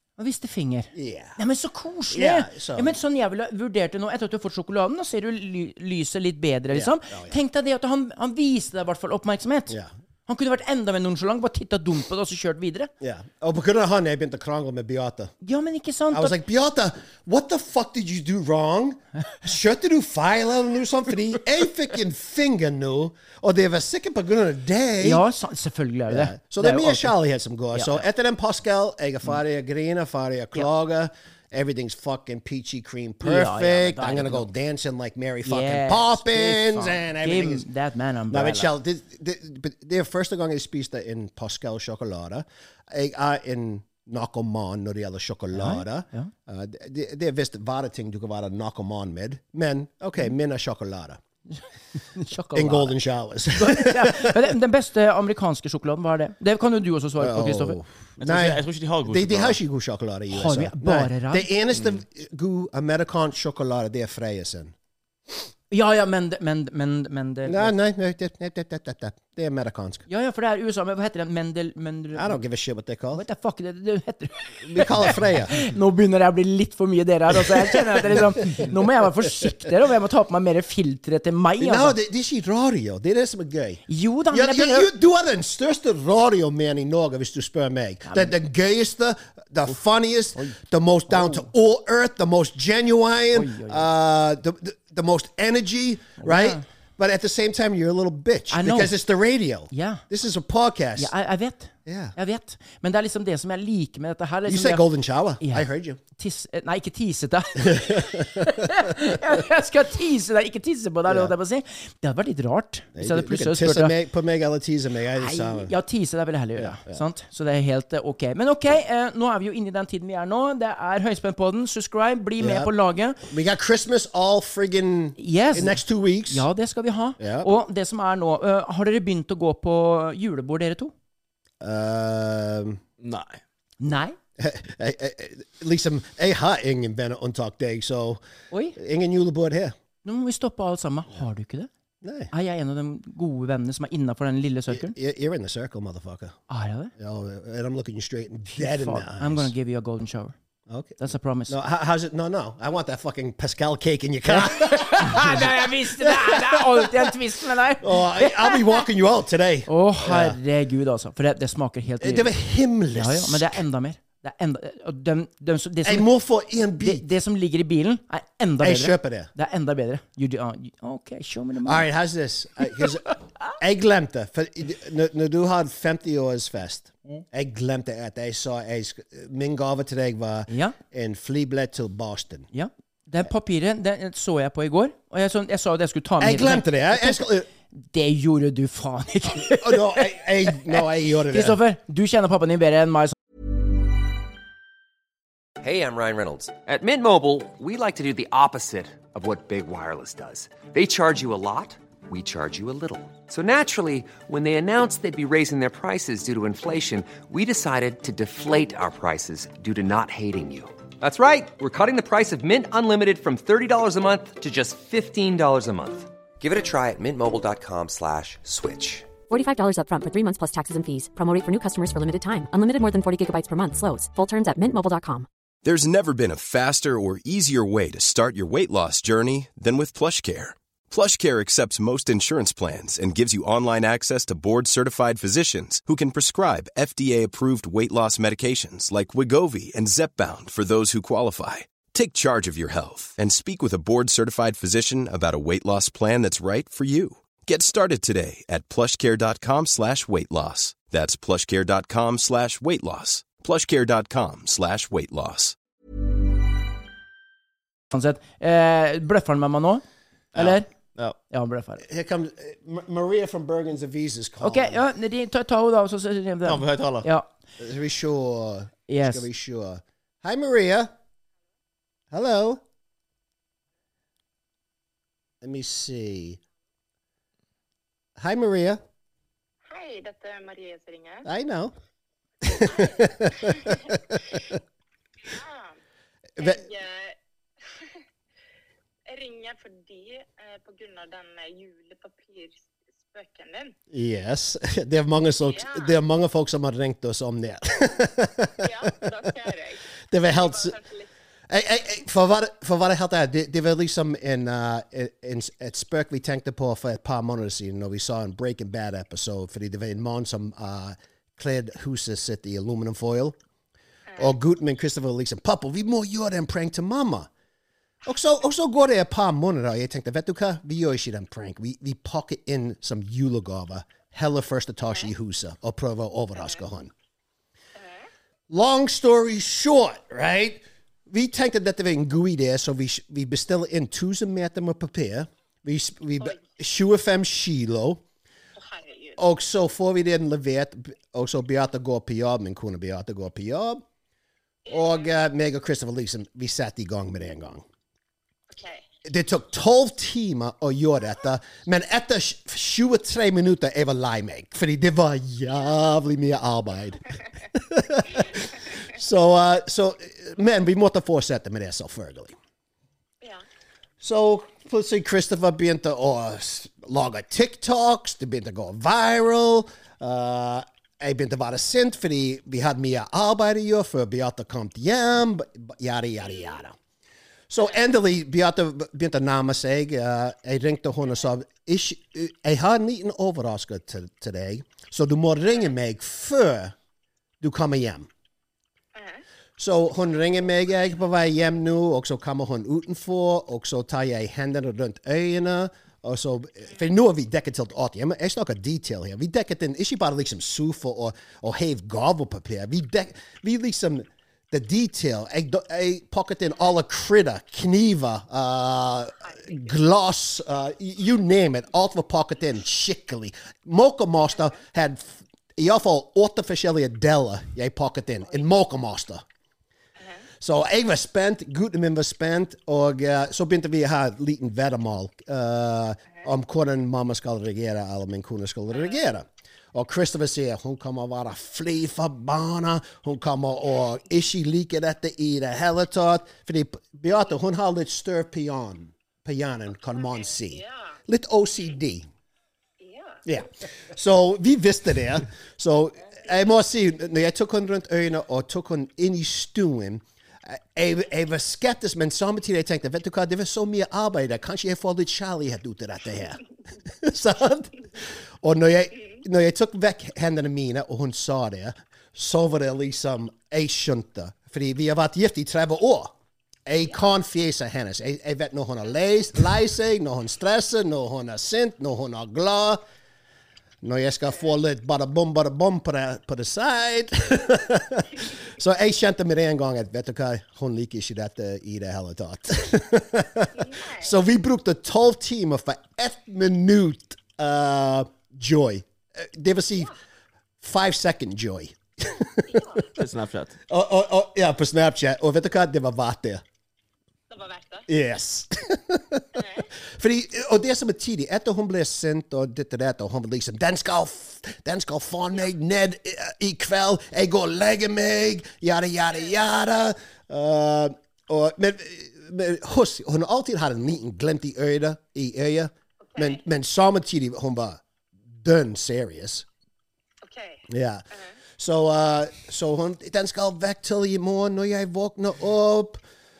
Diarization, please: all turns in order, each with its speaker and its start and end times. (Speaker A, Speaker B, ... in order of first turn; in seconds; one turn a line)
Speaker A: 0.2-9.7
Speaker B: 0.9-1.4
Speaker B: 2.1-3.0
Speaker B: 6.7-7.4
Speaker A: 10.3-12.9
Speaker B: 13.0-15.3
Speaker A: 15.4-16.4
Speaker B: 16.1-25.2
Speaker A: 25.0-27.1
Speaker B: 26.1-37.6
Speaker A: 27.7-28.0
Speaker A: 33.2-34.5
Speaker A: 35.4-38.7
Speaker B: 38.3-51.2
Speaker A: 45.5-46.3
Speaker A: 52.1-52.9
Speaker B: 52.5-54.5
Speaker A: 53.6-57.8
Speaker B: 57.2-64.7
Speaker C: 58.2-59.6
Speaker A: 60.3-61.5
Speaker A: 65.7-67.7
Speaker B: 67.5-70.0
Speaker A: 70.1-72.4
Speaker B: 72.1-73.2
Speaker A: 73.1-82.0
Speaker B: 74.6-75.6
Speaker B: 77.3-79.2
Speaker B: 81.6-101.1
Speaker A: 83.9-84.9
Speaker A: 88.0-88.3
Speaker A: 91.1-91.5
Speaker A: 93.3-93.9
Speaker A: 96.2-96.6
Speaker A: 98.5-98.9
Speaker A: 99.7-100.0
Speaker A: 101.0-104.8
Speaker B: 101.9-102.1
Speaker B: 104.5-106.0
Speaker A: 105.4-113.9
Speaker B: 107.6-108.7
Speaker B: 111.1-111.3
Speaker B: 113.0-115.7
Speaker A: 115.2-123.2
Speaker B: 116.6-117.0
Speaker B: 122.4-122.7
Speaker B: 123.3-126.5
Speaker A: 125.2-130.9
Speaker B: 127.2-127.5
Speaker B: 131.6-132.8
Speaker C: 133.0-133.4
Speaker A: 133.8-134.2
Speaker B: 134.4-138.2
Speaker A: 138.5-138.8
Speaker B: 138.8-139.7
Speaker A: 140.0-141.7
Speaker B: 142.0-142.3
Speaker A: 142.3-144.9
Speaker B: 144.7-146.4
Speaker A: 146.5-146.9
Speaker B: 147.0-149.5
Speaker A: 148.5-150.3
Speaker B: 150.7-157.1
Speaker A: 151.0-151.5
Speaker A: 154.3-158.8
Speaker B: 157.8-160.4
Speaker A: 159.7-162.3
Speaker B: 162.0-163.6
Speaker A: 162.9-166.1
Speaker B: 165.8-167.1
Speaker A: 166.8-171.8
Speaker B: 168.6-169.3
Speaker B: 171.6-182.5
Speaker A: 180.5-180.8
Speaker A: 182.5-187.2
Speaker B: 186.2-187.5
Speaker A: 187.8-193.1
Speaker B: 189.4-191.6
Speaker D: 195.6-219.1
Speaker E: 219.3-225.3
Speaker F: 225.6-255.6
Speaker A: 257.9-259.8
Speaker A: 260.4-260.7
Speaker A: 261.3-261.8
Speaker B: 261.8-264.8
Speaker A: 264.4-267.2
Speaker C: 266.4-267.1
Speaker B: 267.6-270.9
Speaker A: 268.9-269.2
Speaker B: 272.1-272.6
Speaker B: 275.4-276.4
Speaker B: 278.2-278.8
Speaker G: 279.6-281.3
Speaker B: 281.2-281.7
Speaker B: 282.4-284.6
Speaker G: 282.6-283.9
Speaker G: 285.2-285.8
Speaker B: 286.4-286.6
Speaker G: 286.4-287.1
Speaker G: 287.7-288.0
Speaker G: 289.1-293.7
Speaker B: 293.9-299.3
Speaker G: 295.4-295.9
Speaker G: 298.6-301.1
Speaker B: 300.1-300.8
Speaker B: 301.5-313.4
Speaker B: 314.2-317.3
Speaker B: 318.0-326.9
Speaker G: 326.4-326.6
Speaker G: 327.8-328.1
Speaker B: 328.5-338.0
Speaker G: 338.6-339.2
Speaker B: 339.2-343.8
Speaker G: 344.6-345.1
Speaker B: 344.7-347.6
Speaker G: 348.5-348.9
Speaker B: 349.0-362.4
Speaker B: 364.0-376.7
Speaker B: 377.5-386.7
Speaker B: 387.4-388.1
Speaker G: 388.9-389.2
Speaker B: 389.6-419.2
Speaker G: 420.0-420.2
Speaker B: 420.4-442.1
Speaker G: 439.9-441.0
Speaker G: 442.8-443.2
Speaker B: 443.2-466.1
Speaker B: 466.6-472.8
Speaker B: 473.8-489.9
Speaker G: 483.6-484.1
Speaker B: 490.6-492.8
Speaker G: 492.5-492.9
Speaker C: 492.9-493.6
Speaker B: 493.7-496.4
Speaker G: 497.3-497.9
Speaker B: 497.9-517.8
Speaker G: 499.4-499.7
Speaker G: 516.0-516.4
Speaker B: 518.4-519.5
Speaker G: 520.2-521.4
Speaker B: 520.7-521.0
Speaker B: 521.6-526.0